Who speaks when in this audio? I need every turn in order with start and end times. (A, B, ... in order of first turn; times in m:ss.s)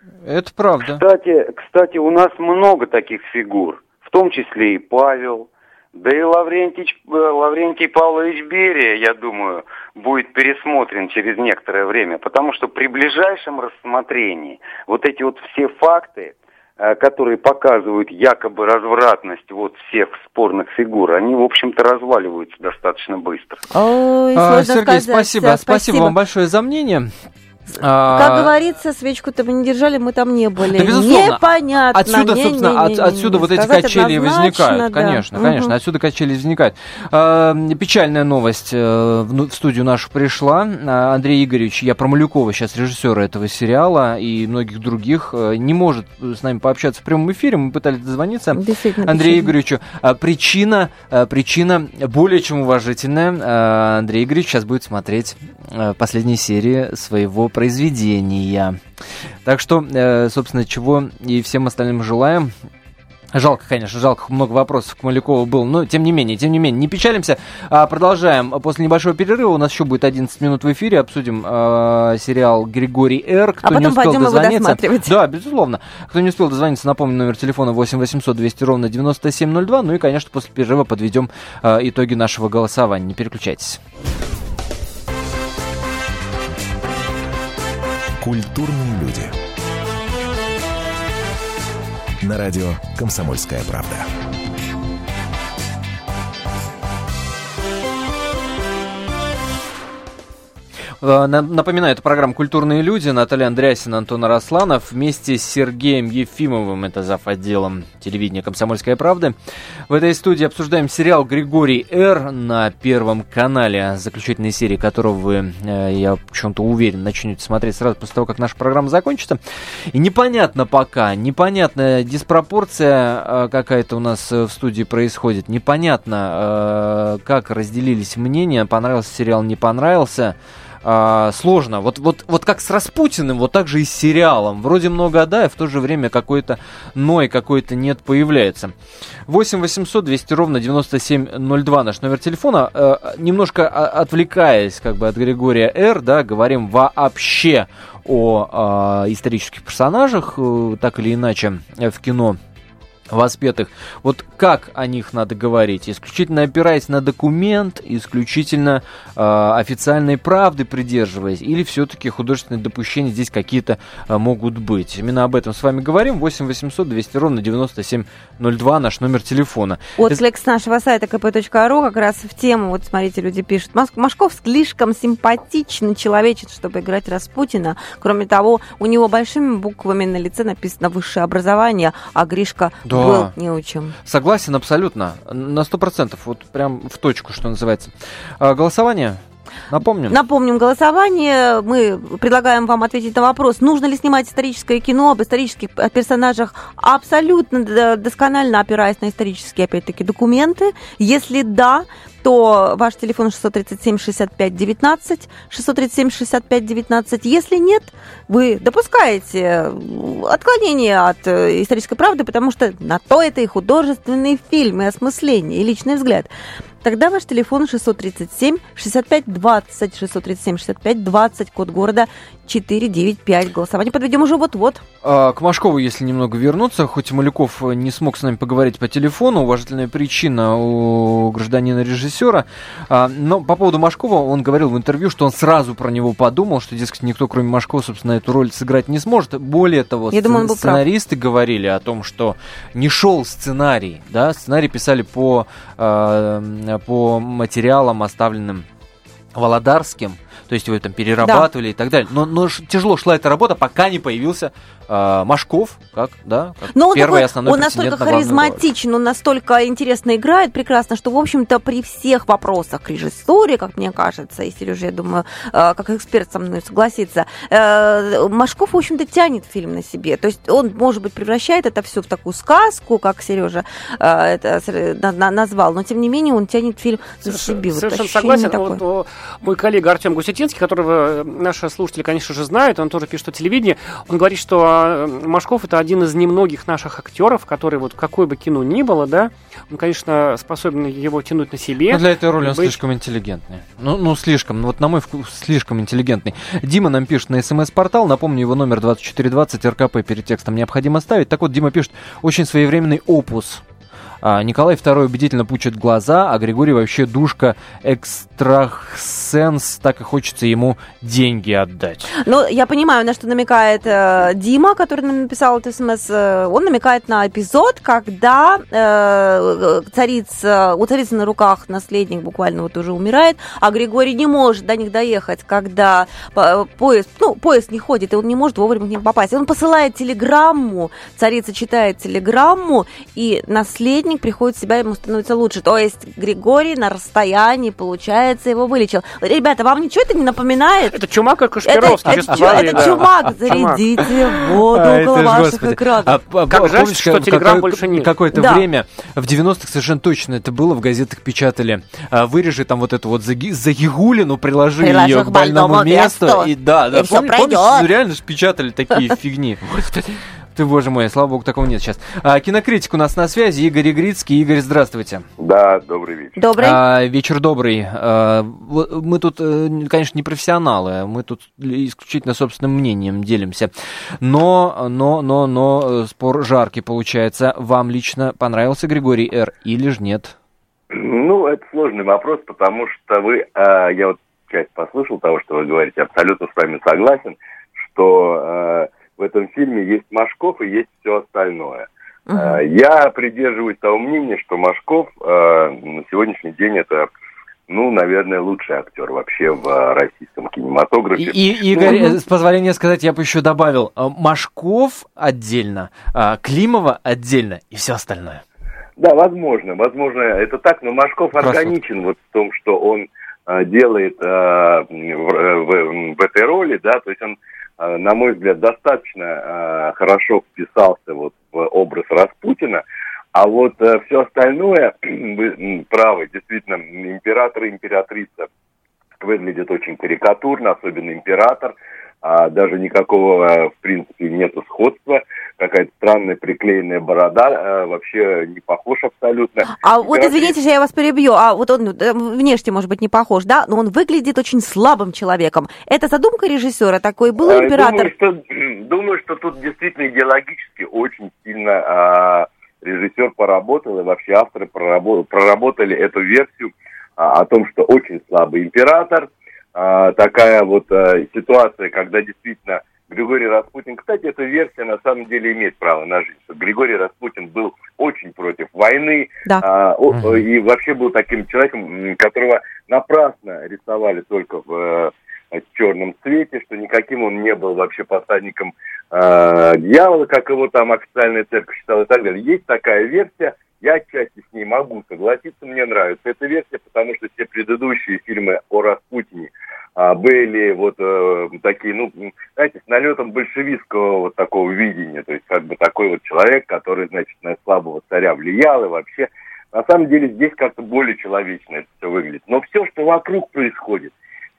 0:00.2-0:01.0 A
0:00.9-0:23.6 B
0:23.7-0:26.2 C
0:24.4-0:27.1 A
0:27.8-0:28.5 A
0:28.1-0:35.8 C
0:30.7-0:58.8 A
0:48.6-0:49.5 C
0:59.4-1:02.5 A
1:03.3-1:23.8 A
1:13.6-1:15.1 C
1:28.2-1:29.3 D
1:32.2-1:34.1 D
1:41.0-1:49.4 A
1:49.9-1:59.4 A
1:59.9-2:18.7 A
2:19.3-2:32.4 A
2:33.1-2:50.2 A
2:50.0-3:04.0 C
3:02.8-3:03.3 A
3:04.0-3:10.2 A
3:10.1-3:36.3 C
3:36.8-3:44.8 C
3:45.0-4:08.7 A
4:00.1-4:00.8 C
4:09.4-4:18.7 A
4:11.2-4:11.5 C
4:16.7-4:38.8 C
4:37.2-4:52.8 E
4:51.9-5:03.6 A
5:04.2-5:12.1 A
5:12.2-5:41.0 C
5:40.9-5:43.8 E
5:41.6-5:46.2 C
5:42.1-5:43.1 A
5:44.0-6:05.3 A
5:46.5-5:48.1 E
5:48.3-5:48.6 C
5:54.8-5:57.9 C
6:05.4-6:06.4 F
6:06.4-6:06.8 C
6:06.6-6:20.4 A
6:20.9-6:37.1 F
6:32.3-6:32.6 C
6:37.7-6:42.1 F
6:41.2-6:48.4 A
6:41.8-6:42.2 C
6:49.0-7:08.5 F
6:51.4-6:51.8 A
7:09.2-7:20.6 F
7:19.8-7:28.1 C
7:27.4-8:24.1 F
7:50.1-7:50.4 A